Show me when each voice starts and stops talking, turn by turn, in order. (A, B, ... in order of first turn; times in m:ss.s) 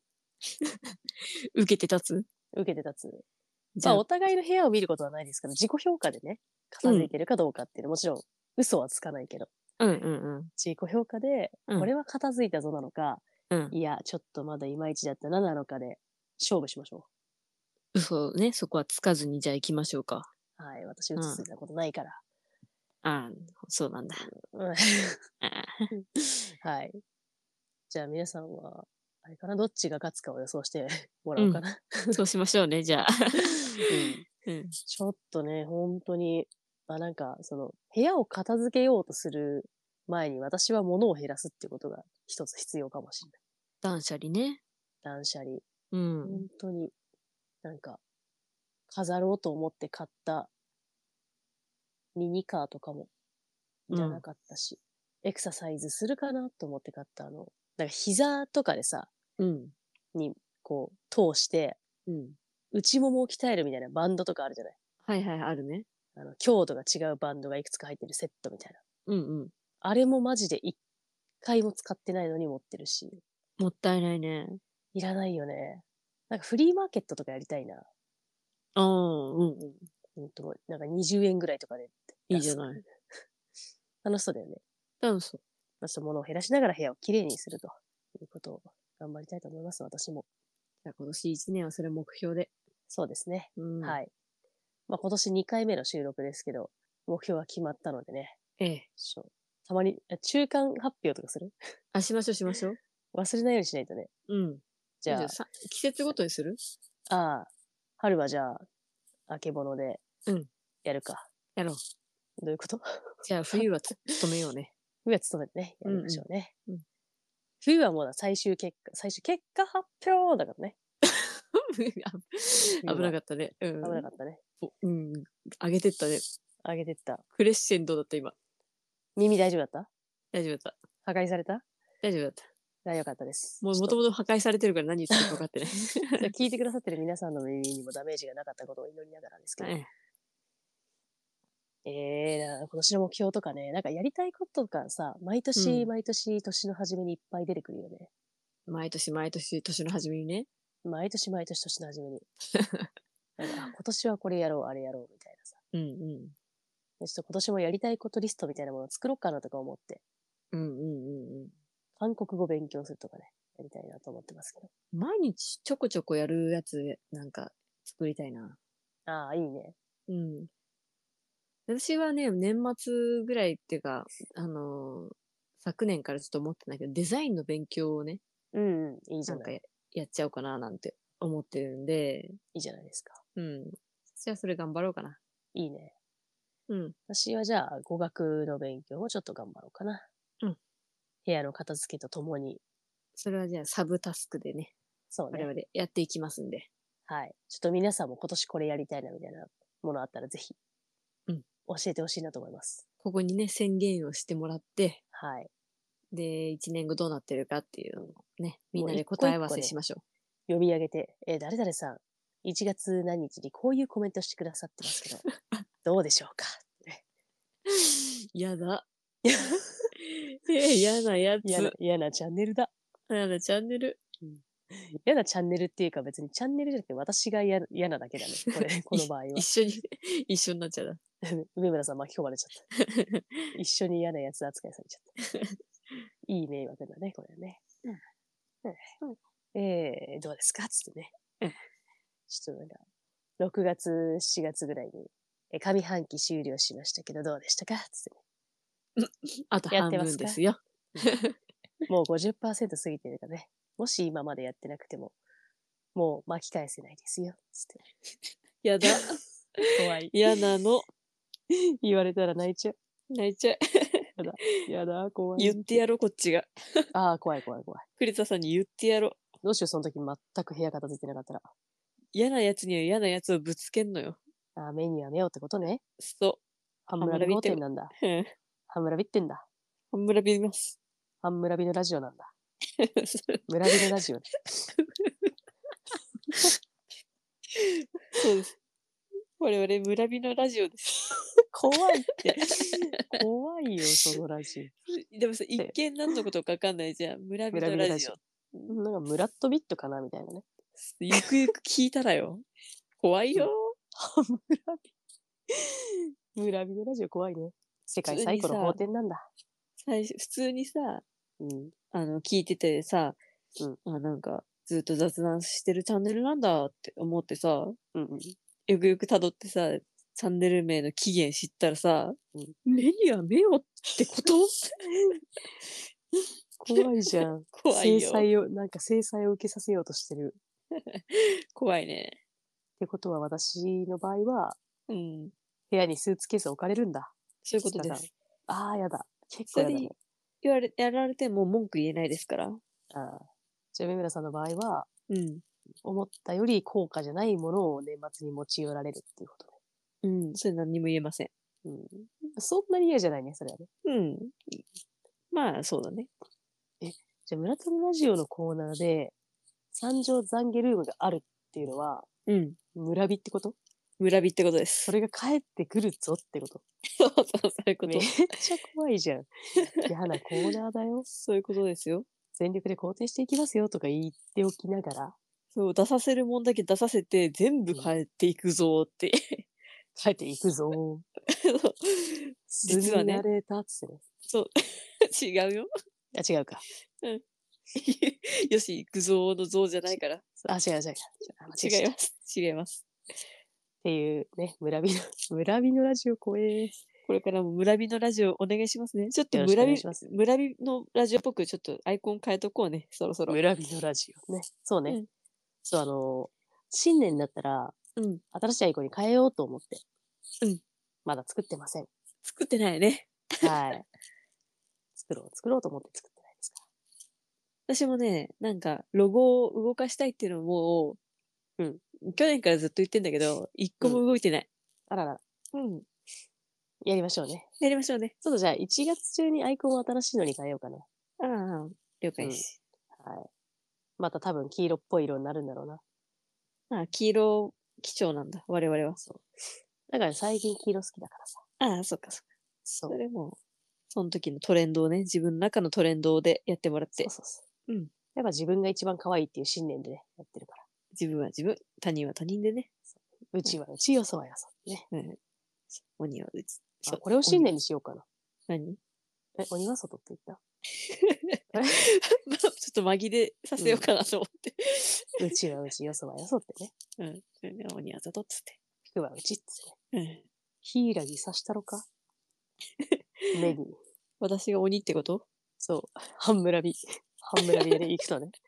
0:00.6-0:02.2 A
0:02.5-0:03.2 B
0:03.7-0:04.0 A
0:03.8-0:09.5 B
0:06.8-0:07.1 A
0:09.8-0:10.5 A
0:10.6-0:17.1 B
0:17.9-0:20.3 A
0:20.6-0:22.2 B
0:21.2-0:21.4 A
0:23.0-0:24.3 A
0:24.2-0:25.2 B
0:25.4-0:25.9 A
0:26.6-0:27.0 B
0:27.9-0:32.2 B
0:31.4-0:34.7 A
0:33.9-0:34.2 B
0:34.9-0:43.4 B
0:43.8-0:44.6 A
0:45.0-0:45.6 B
0:45.9-0:46.4 A
0:46.2-0:46.9 B
0:47.6-0:48.0 B
0:48.9-0:50.5 B
0:52.1-0:53.1 B
0:53.9-0:59.1 B
0:53.9-0:54.2 A
0:59.4-0:59.7 A
1:00.1-1:01.8 B
1:02.1-1:02.4 A
1:02.7-1:04.8 B
1:05.0-1:05.8 A
1:06.2-1:08.8 B
1:09.1-1:09.5 A
1:09.8-1:10.8 B
1:11.4-1:13.2 B
1:13.6-1:14.6 A
1:14.9-1:17.9 B
1:18.8-1:19.9 A
1:20.2-1:22.9 B
1:22.3-1:22.8 A
1:24.0-1:24.6 B
1:25.0-1:25.4 A
1:25.8-1:30.2 B
1:30.8-1:32.5 A
1:32.9-1:34.1 B
1:33.6-1:34.0 A
1:34.9-1:38.4 B
1:38.6-1:38.9 A
1:39.0-1:41.5 B
1:41.9-1:42.8 A
1:43.1-1:44.1 B
1:44.3-1:46.6 A
1:45.0-1:45.4 B
1:47.1-1:48.6 B
1:49.3-1:50.0 B
1:50.8-1:51.3 B
1:51.6-1:51.8 A
1:52.4-1:52.8 B
1:53.2-1:54.7 A
1:55.0-1:56.5 B
1:55.8-1:56.8 A
1:57.6-2:00.8 B
2:01.0-2:04.0 A
2:02.8-2:03.2 B
2:03.8-2:04.4 B
2:04.6-2:06.2 A
2:06.6-2:07.2 B
2:07.3-2:08.3 A
2:09.2-2:09.9 B
2:10.3-2:10.8 A
2:11.0-2:11.6 B
2:12.0-2:12.4 A
2:12.8-2:14.0 B
2:13.6-2:16.3 A
2:16.2-2:19.7 B
2:19.6-2:19.9 A
2:21.8-2:28.1 B
2:25.6-2:25.9 A
2:28.7-2:30.5 A
2:30.8-2:32.2 B
2:32.5-2:32.9 A
2:33.4-2:35.6 B
2:35.7-2:36.3 A
2:37.0-2:40.0 B
2:40.5-2:41.5 A
2:42.0-2:44.7 B
2:44.9-2:48.6 A
2:49.1-2:49.7 B
2:50.1-2:50.5 A
2:51.7-2:58.2 A
2:58.5-2:59.5 B
2:59.3-3:02.4 A
3:02.5-3:03.2 B
3:03.4-3:05.2 A
3:05.5-3:05.9 B
3:06.7-3:06.9 A
3:07.1-3:10.1 B
3:11.2-3:12.6 B
3:13.2-3:14.7 A
3:15.1-3:15.5 B
3:15.3-3:16.7 A
3:17.1-3:20.6 B
3:21.7-3:22.8 B
3:23.0-3:25.0 A
3:25.1-3:25.5 B
3:26.1-3:30.0 A
3:28.7-3:29.7 B
3:30.5-3:35.2 B
3:35.3-3:35.6 A
3:35.8-3:37.0 B
3:37.7-3:38.9 A
3:39.2-3:39.9 B
3:40.0-3:41.7 A
3:41.4-3:42.7 B
3:43.1-3:44.0 A
3:44.2-3:49.5 B
3:48.9-3:51.0 A
3:51.2-3:52.6 B
3:52.7-3:53.5 A
3:53.5-3:55.1 B
3:56.3-3:57.6 B
3:59.5-4:01.1 B
4:02.3-4:02.8 B
4:03.4-4:08.2 B
4:09.0-4:11.4 A
4:09.7-4:10.4 B
4:11.9-4:15.1 B
4:15.9-4:17.8 B
4:18.6-4:20.9 A
4:19.7-4:20.2 B
4:21.8-4:22.7 B
4:23.1-4:24.1 A
4:24.2-4:25.8 B
4:25.4-4:26.9 A
4:26.9-4:27.8 B
4:28.0-4:29.2 A
4:29.4-4:31.5 B
4:32.1-4:34.2 A
4:34.6-4:35.8 B
4:36.0-4:36.4 A
4:36.9-4:37.9 B
4:37.0-4:38.3 A
4:38.7-4:39.4 B
4:39.9-4:40.8 A
4:41.2-4:42.3 B
4:42.8-4:43.8 A
4:43.5-4:44.3 B
4:44.8-4:45.3 A
4:47.5-4:48.5 A
4:49.4-4:51.1 A
4:51.5-4:54.7 B
4:52.4-4:53.2 A
4:54.9-4:58.2 A
4:57.5-4:58.1 B
4:58.7-5:00.5 B
5:00.8-5:02.4 A
5:03.0-5:03.7 A
5:03.4-5:04.9 B
5:06.3-5:09.3 B
5:08.1-5:08.8 A
5:09.8-5:11.0 A
5:11.4-5:11.7 B
5:11.9-5:13.2 A
5:13.8-5:17.8 A
5:17.9-5:18.3 B
5:18.7-5:24.5 A
5:26.6-5:30.4 B
5:26.8-5:28.3 A
5:30.7-5:32.2 A
5:32.8-5:34.6 B
5:34.9-5:35.3 A
5:35.7-5:37.1 B
5:37.4-5:38.1 A
5:37.7-5:39.9 B
5:39.5-5:42.6 A
5:42.9-5:44.9 B
5:45.1-5:45.4 A
5:45.8-5:49.6 B
5:50.0-5:51.3 A
5:51.6-5:53.7 B
5:53.8-5:54.6 A
5:55.3-5:56.1 A
5:56.8-5:59.1 B
5:59.7-6:02.1 B
6:02.3-6:02.6 A
6:02.7-6:03.6 B
6:04.0-6:04.9 A
6:04.9-6:06.6 B
6:06.9-6:08.3 A
6:07.8-6:11.1 B
6:11.1-6:12.1 A
6:12.4-6:15.2 B
6:15.5-6:19.5 A
6:20.0-6:21.0 B
6:21.3-6:23.2 A
6:22.5-6:24.0 B
6:24.2-6:25.7 A
6:26.1-6:26.6 B
6:27.7-6:30.2 A
6:30.4-6:31.9 B
6:31.6-6:32.8 A
6:33.8-6:36.8 B
6:37.0-6:43.4 A
6:39.3-6:40.0 B
6:43.3-6:45.0 B
6:45.6-6:47.8 B
6:48.0-6:48.2 A
6:48.3-6:49.8 B
6:51.0-6:51.9 B
6:52.2-6:53.5 A
6:53.4-6:53.8 B
6:55.0-6:56.6 B
6:57.7-7:01.0 A
7:02.0-7:04.5 A
7:04.9-7:05.2 B
7:05.5-7:05.8 A
7:06.8-7:07.5 B
7:07.6-7:08.1 A
7:08.2-7:10.8 B
7:11.2-7:12.6 A
7:12.2-7:12.4 B
7:13.0-7:13.3 B
7:14.0-7:15.8 B
7:16.7-7:19.0 A
7:19.0-7:19.2 B
7:19.9-7:21.4 B
7:21.6-7:22.2 A
7:22.6-7:23.0 B
7:22.9-7:23.4 A
7:23.9-7:27.1 A
7:27.0-7:27.4 B
7:27.7-7:27.9 A
7:28.1-7:30.6 B
7:30.9-7:32.7 A
7:33.3-7:34.9 B
7:34.9-7:35.2 A
7:35.7-7:37.5 A
7:36.9-7:38.0 B
7:38.5-7:38.8 A
7:39.4-7:40.4 B
7:40.8-7:45.4 A
7:41.5-7:41.8 B
7:43.6-7:43.8 B
7:45.2-7:46.7 B
7:47.0-7:48.6 A
7:48.9-7:49.8 B
7:49.9-7:50.2 A
7:50.6-7:51.8 B
7:52.8-7:53.4 A
7:53.3-7:53.7 B
7:54.2-7:55.2 A
7:55.6-7:58.4 B
7:57.4-7:57.8 A